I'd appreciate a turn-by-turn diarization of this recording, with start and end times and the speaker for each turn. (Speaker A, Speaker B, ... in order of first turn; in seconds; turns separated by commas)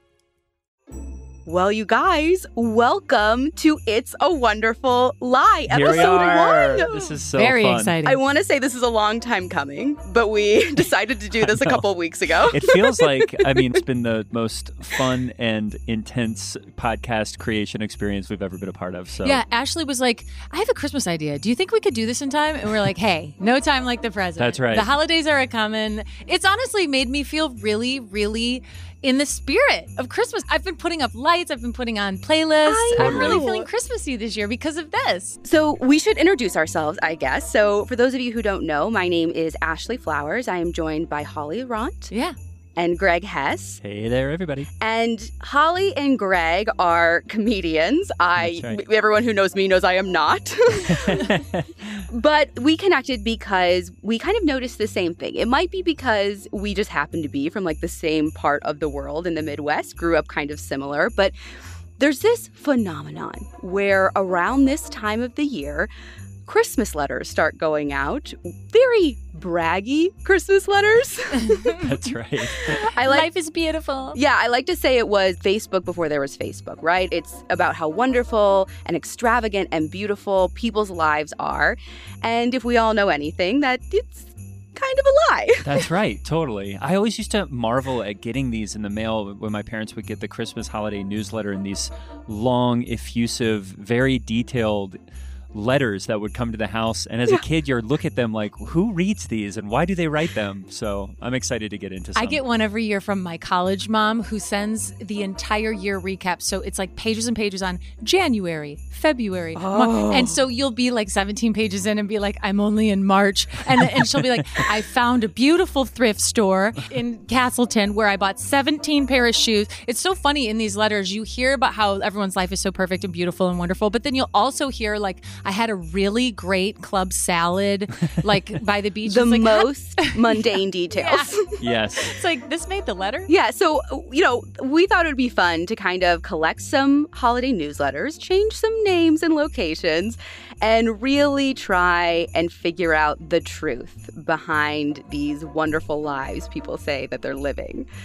Speaker A: 1.5-7.2, Speaker B: 5.7-8.0, Speaker C: 7.4-8.2, Speaker A: 8.0-13.8, Speaker B: 11.4-11.8, Speaker B: 12.4-19.4, Speaker C: 19.2-35.4, Speaker B: 24.4-24.9, Speaker A: 32.6-33.7, Speaker B: 33.0-33.5, Speaker A: 35.4-42.1, Speaker A: 42.8-43.8, Speaker B: 43.8-44.7, Speaker A: 44.8-61.3, Speaker B: 48.4-48.8, Speaker B: 50.9-51.7, Speaker A: 62.0-65.9, Speaker A: 66.5-71.8, Speaker C: 71.4-71.9, Speaker B: 71.7-72.9, Speaker A: 72.6-73.3, Speaker C: 73.0-74.2, Speaker A: 74.1-85.9, Speaker B: 85.6-95.0, Speaker B: 95.5-102.4, Speaker C: 102.2-131.4, Speaker A: 109.5-110.4, Speaker A: 129.1-131.6, Speaker B: 131.6-132.2, Speaker C: 132.0-133.3, Speaker A: 133.3-147.9